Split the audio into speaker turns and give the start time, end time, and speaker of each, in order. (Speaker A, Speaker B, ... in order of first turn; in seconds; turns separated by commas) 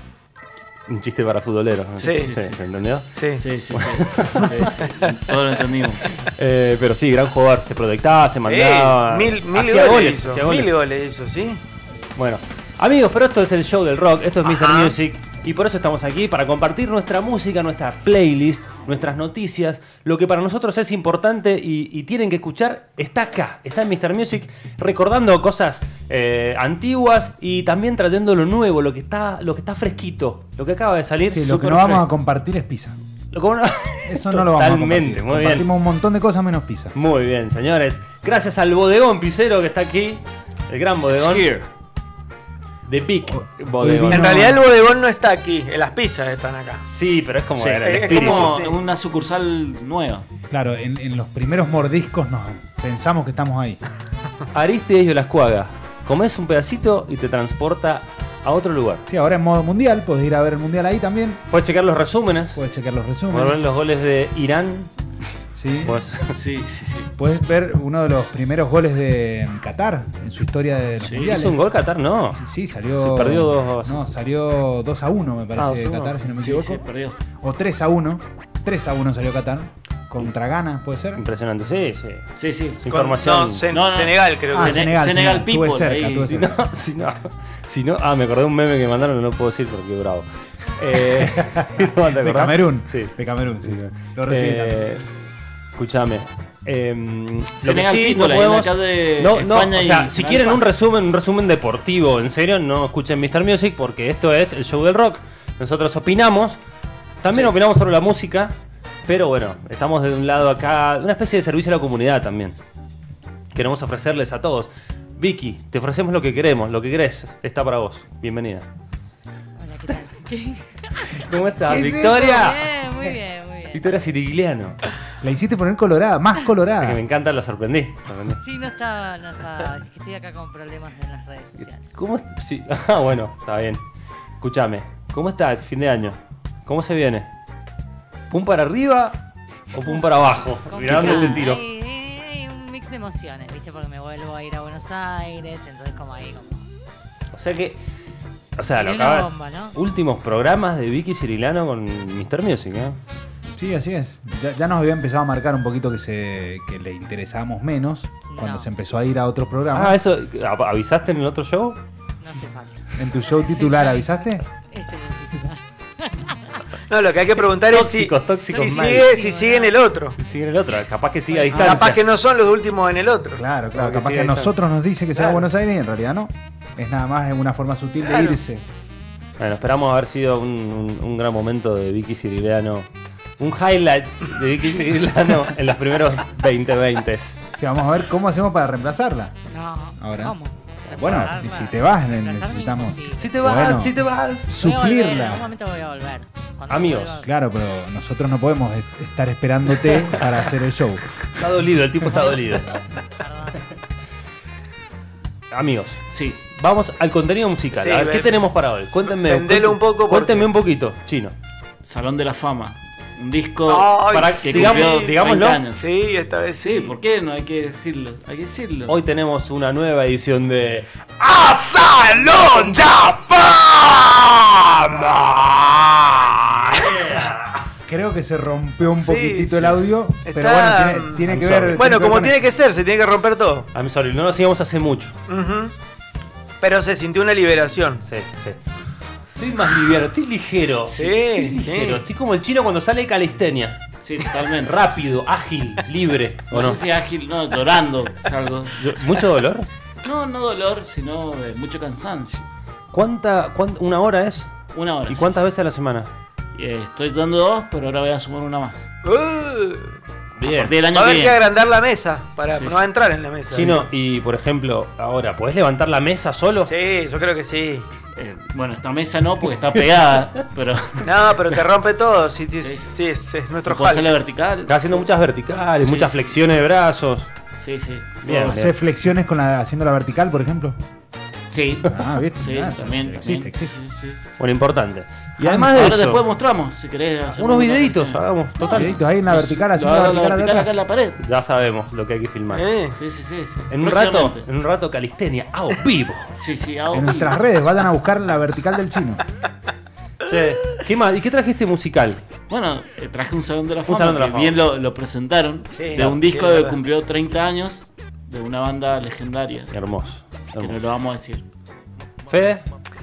Speaker A: 0.9-3.1, Speaker B: 2.0-2.4, Speaker B: 3.1-3.4, Speaker C: 3.3-6.1, Speaker A: 3.7-4.7, Speaker B: 4.8-5.3, Speaker A: 6.2-10.7, Speaker B: 8.4-11.6, Speaker A: 12.2-32.1, Speaker B: 14.4-14.9, Speaker D: 31.3-33.0, Speaker A: 33.3-35.7, Speaker D: 34.0-36.9, Speaker A: 36.9-41.5, Speaker C: 41.1-41.7, Speaker A: 42.9-44.3, Speaker D: 43.3-44.6, Speaker B: 44.1-46.8, Speaker A: 46.9-48.5, Speaker C: 47.6-50.2, Speaker B: 47.8-48.8, Speaker D: 50.5-53.8, Speaker A: 54.5-59.0, Speaker D: 59.1-61.4, Speaker A: 61.5-62.6, Speaker D: 62.5-63.6, Speaker A: 63.3-64.9, Speaker D: 65.6-66.0, Speaker A: 65.8-66.3, Speaker C: 66.3-67.1, Speaker D: 67.2-71.6, Speaker C: 71.0-71.3, Speaker A: 71.2-72.4, Speaker D: 72.3-76.8, Speaker A: 73.0-74.0, Speaker A: 75.6-76.1, Speaker C: 76.4-77.2, Speaker D: 77.4-81.2, Speaker A: 81.2-82.2, Speaker C: 82.4-82.8, Speaker A: 82.8-83.6, Speaker B: 82.9-84.9, Speaker C: 83.7-86.3, Speaker D: 84.5-86.6, Speaker A: 86.3-90.2, Speaker A: 90.8-95.0, Speaker D: 91.2-94.8, Speaker A: 95.7-106.6, Speaker C: 97.6-100.7, Speaker A: 107.2-108.5, Speaker C: 107.3-107.5, Speaker A: 109.0-112.5, Speaker A: 113.5-118.7, Speaker E: 119.6-124.0, Speaker A: 121.2-122.7, Speaker D: 121.7-122.4, Speaker A: 123.7-124.8, Speaker D: 125.2-127.0, Speaker A: 126.8-128.4, Speaker E: 128.4-131.8, Speaker A: 131.6-133.8, Speaker A: 134.4-137.3, Speaker A: 138.3-139.2, Speaker A: 139.7-141.6, Speaker E: 140.7-146.6, Speaker A: 147.3-147.8, Speaker A: 148.6-153.0, Speaker E: 148.8-149.8, Speaker D: 153.6-160.0, Speaker E: 158.3-158.7, Speaker A: 159.7-161.8, Speaker E: 162.2-166.6, Speaker D: 162.9-164.4, Speaker B: 166.9-170.2, Speaker A: 167.7-169.1, Speaker E: 168.5-169.8, Speaker A: 170.2-172.0, Speaker D: 171.5-172.0, Speaker B: 171.5-173.4, Speaker D: 173.4-178.6, Speaker A: 173.7-174.5, Speaker B: 175.2-175.4, Speaker B: 178.1-178.4, Speaker A: 179.4-182.9, Speaker A: 183.4-187.4, Speaker D: 187.6-189.3, Speaker E: 189.5-193.9, Speaker D: 190.0-190.3, Speaker A: 190.8-191.3, Speaker D: 190.9-195.4, Speaker A: 193.2-194.5, Speaker E: 194.5-197.3, Speaker A: 196.7-197.2, Speaker D: 197.2-201.0, Speaker A: 201.3-202.8, Speaker E: 202.2-202.6, Speaker E: 203.1-203.7, Speaker A: 205.5-211.3, Speaker C: 206.1-206.4, Speaker B: 207.7-208.4, Speaker B: 209.1-210.5, Speaker C: 211.8-215.8, Speaker B: 213.7-215.2, Speaker A: 214.0-215.6, Speaker B: 215.7-216.9, Speaker C: 216.6-219.0, Speaker A: 218.9-227.5, Speaker D: 227.9-232.4, Speaker B: 229.0-233.7, Speaker A: 231.3-231.8, Speaker A: 233.7-235.1, Speaker B: 235.3-235.7, Speaker B: 236.6-238.0, Speaker A: 238.0-238.6, Speaker A: 239.4-243.8, Speaker B: 240.9-242.0, Speaker C: 244.0-244.8, Speaker A: 244.6-246.8, Speaker C: 246.5-248.8, Speaker A: 248.8-249.7, Speaker C: 250.0-252.4, Speaker A: 252.9-254.5, Speaker C: 254.7-255.4, Speaker A: 255.1-256.1, Speaker C: 256.5-258.9, Speaker B: 259.0-259.9, Speaker A: 260.4-260.7, Speaker C: 260.4-261.4, Speaker B: 260.9-263.8, Speaker C: 262.5-262.8, Speaker A: 263.5-266.7, Speaker C: 263.5-263.8, Speaker B: 266.7-267.9, Speaker C: 268.1-271.1, Speaker B: 271.0-274.1, Speaker C: 272.6-272.9, Speaker C: 273.6-275.0, Speaker A: 274.6-277.3, Speaker C: 275.8-276.2, Speaker C: 277.6-278.6, Speaker A: 278.2-278.7, Speaker D: 278.3-280.8, Speaker C: 281.5-284.2, Speaker D: 281.9-283.8, Speaker A: 284.4-286.2, Speaker D: 285.4-285.8, Speaker C: 285.6-291.2, Speaker A: 287.4-288.9, Speaker D: 288.7-290.8, Speaker A: 291.2-292.6, Speaker B: 292.5-292.9, Speaker C: 292.9-294.4, Speaker A: 293.7-296.4, Speaker C: 296.3-297.4, Speaker D: 296.9-299.2, Speaker A: 300.2-302.2, Speaker C: 302.5-309.7, Speaker A: 303.9-304.6, Speaker B: 305.7-306.8, Speaker A: 309.7-310.8, Speaker C: 310.6-311.4, Speaker A: 312.3-312.6